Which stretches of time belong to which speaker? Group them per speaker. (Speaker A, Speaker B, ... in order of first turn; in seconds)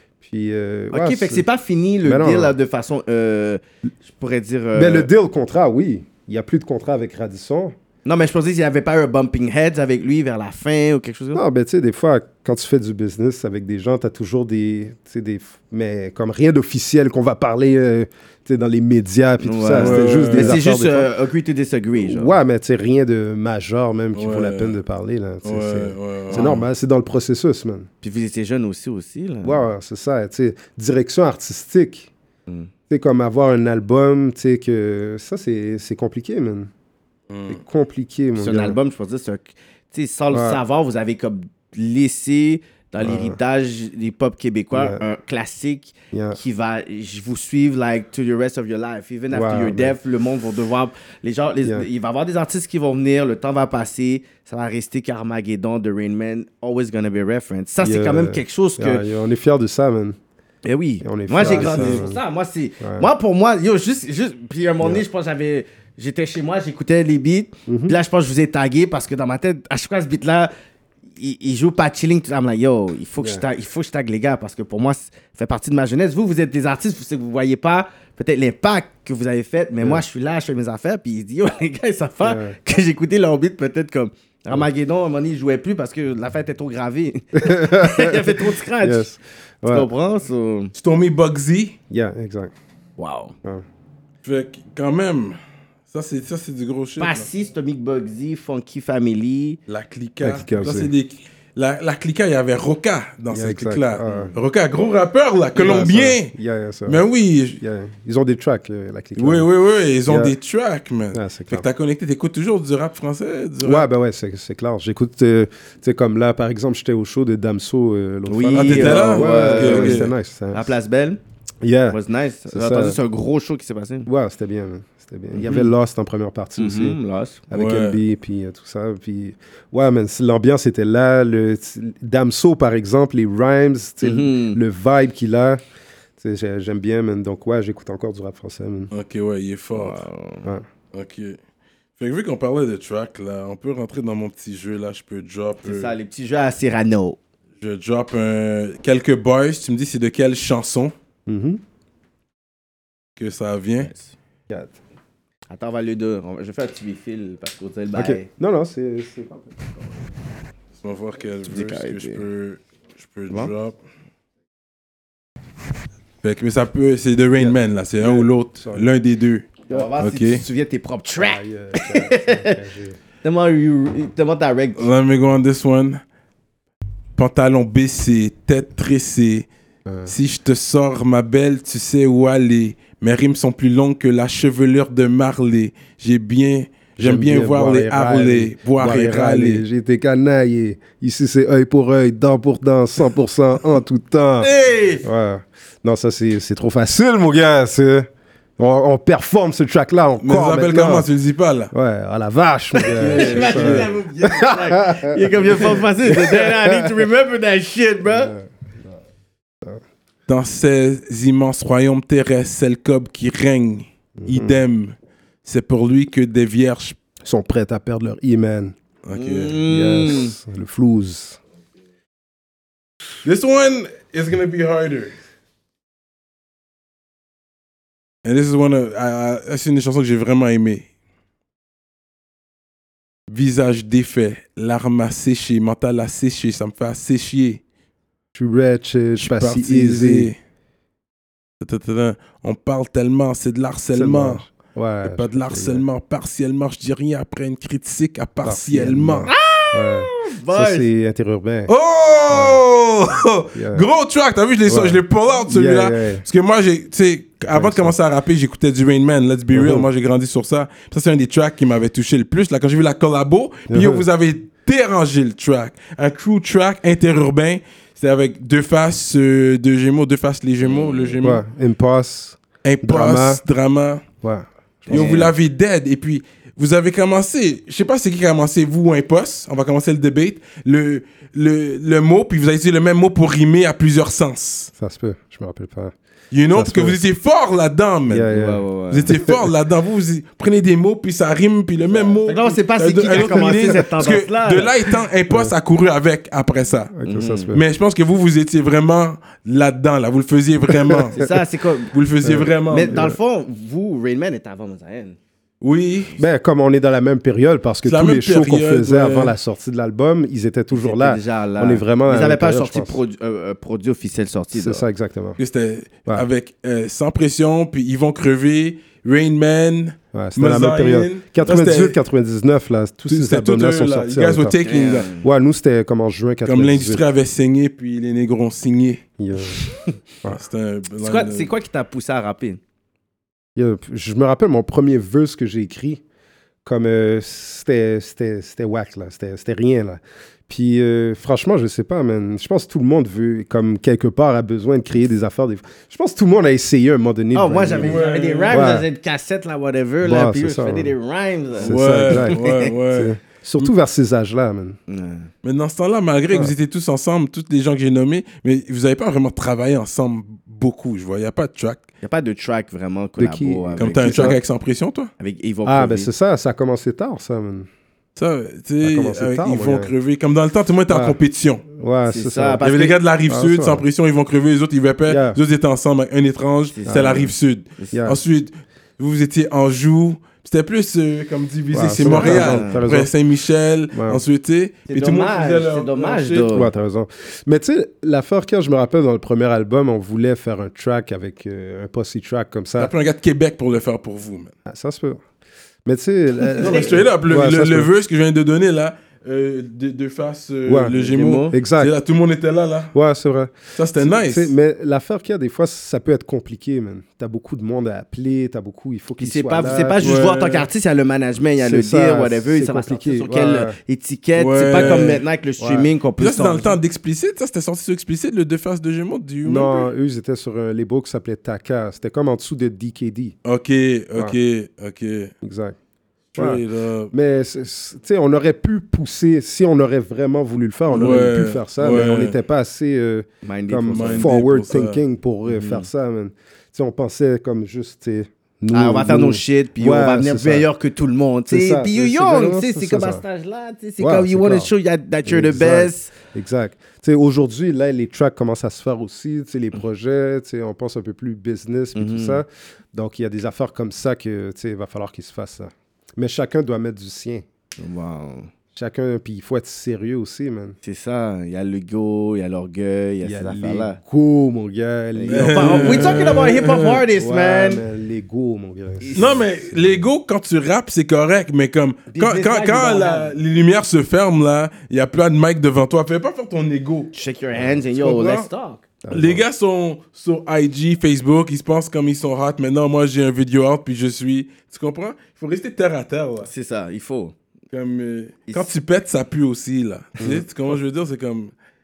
Speaker A: 0.2-1.4, 2.0-2.5, 4.7-7.7, 11.3-21.1, 22.0-27.9, 29.4-32.1, 32.9-36.7, 37.5-38.8, 40.3-40.6, 43.0-43.4, 44.7-45.0, 46.1-46.4, 49.3-50.0, 57.8-60.2, 61.0-62.2, 62.8-63.1, 67.7-67.9, 73.2-73.4, 82.2-82.5, 87.3-89.9, 91.9-92.5, 100.2-100.9, 103.3-104.3, 105.5-107.0, 107.5-109.5, 110.0-110.3, 111.1-111.7, 113.6-120.7, 121.6-123.0, 124.1-127.0, 127.5-135.6, 136.2-138.9, 151.3-151.6, 154.5-154.7, 157.9-159.7, 167.4-168.9, 171.2-173.0, 179.8-180.1, 187.0-201.1, 201.7-207.0, 208.0-208.5, 214.2-214.6, 217.2-218.7, 219.6-221.4, 238.3-240.3, 243.9-245.8, 248.4-251.7, 252.3-252.6, 253.5-253.8, 254.7-256.2, 257.5-257.9, 259.5-259.9, 263.7-264.1, 271.2-273.4, 274.2-275.3, 284.8-285.9, 286.5-287.0, 288.1-289.5, 295.3-295.5, 296.9-297.6, 300.7-301.2, 302.2-303.2, 306.2-313.0, 314.5-315.4, 320.1-324.6, 325.1-327.0, 329.2-329.6, 333.6-336.0, 336.6-348.9, 350.0-350.9, 351.6-354.8, 363.2-364.4, 365.6-367.7, 368.8-369.9, 370.9-371.2, 371.7-372.6, 373.3-373.8, 375.1-375.4, 376.9-377.3, 377.9-378.2, 381.7-383.1, 383.9-384.2, 386.5-392.9, 394.6-395.2, 395.8-397.9, 400.6-401.9, 402.9-410.1, 411.6-413.8, 414.8-415.1, 415.6-415.9, 419.4-423.3, 425.4-425.8, 426.4-440.7, 441.5-443.2, 444.0-444.7, 445.2-457.4, 458.7-460.8, 463.2-466.4, 467.1-470.0, 479.0-479.4, 490.2-490.4
Speaker B: 0.9-5.1, 8.0-11.4, 19.4-22.3, 26.3-26.6, 28.0-29.6, 38.4-59.0, 60.6-70.5, 71.2-89.1, 89.7-90.7, 93.0-93.3, 97.0-99.6, 118.3-121.2, 121.9-124.1, 125.3-125.7, 126.6-127.4, 134.0-134.6, 139.7-140.5, 145.6-147.2, 153.8-154.1, 155.5-158.3, 161.5-162.2, 169.7-172.6, 173.2-174.8, 194.4-195.0, 202.8-208.3, 219.1-220.3, 249.3-250.8, 270.6-271.2, 274.9-275.3, 288.3-289.1, 292.2-294.9, 297.0-297.5, 301.1-301.9, 302.7-305.2, 310.7-314.8, 324.6-325.2, 329.6-329.9, 331.0-332.6, 347.3-352.7, 354.9-355.3, 362.0-364.4, 365.2-366.1, 372.1-372.9, 376.7-377.9, 382.0-382.8, 384.9-386.7, 396.6-397.0, 401.0-401.5, 409.2-416.8, 433.4-434.3, 435.4-435.9, 438.7-446.1, 451.9-452.4, 457.8-458.5, 460.8-464.0, 465.1-467.8, 469.0-469.4, 472.1-473.4, 477.1-478.8, 486.4-487.3
Speaker C: 19.8-20.6, 24.1-24.8, 25.4-26.5, 37.3-37.6, 61.4-62.1, 90.7-91.8, 94.2-95.4, 95.9-97.3, 99.7-106.3, 106.8-107.6, 109.2-113.9, 118.5-120.1, 127.5-128.0, 138.9-140.0, 140.9-141.4, 142.0-145.9, 147.6-150.9, 153.2-153.9, 160.8-163.8, 166.2-170.4, 174.8-176.0, 177.2-179.5, 180.1-189.6, 200.2-201.7, 202.9-203.9, 210.3-217.0, 219.0-219.6, 223.2-225.1, 228.2-230.8, 233.3-237.6, 239.2-240.3, 241.6-244.4, 245.0-249.3, 251.7-271.4, 272.6-274.0, 274.9-284.7, 286.3-288.3, 288.9-296.9, 297.5-301.2, 301.9-303.1, 305.6-306.2, 307.8-309.3, 315.4-321.9, 323.1-325.1, 326.4-329.0, 330.3-331.5, 347.8-348.7, 351.6-353.7, 355.4-361.8, 363.8-365.1, 368.1-371.6, 372.6-386.6, 392.8-394.5, 396.6-402.9, 403.7-404.5, 410.0-410.7, 414.4-415.2, 416.2-419.9, 423.4-425.3, 426.3-427.1, 430.9-432.3, 433.9-435.0, 465.3-467.0, 469.1-477.1, 477.8-478.5, 479.1-486.5, 487.7-491.5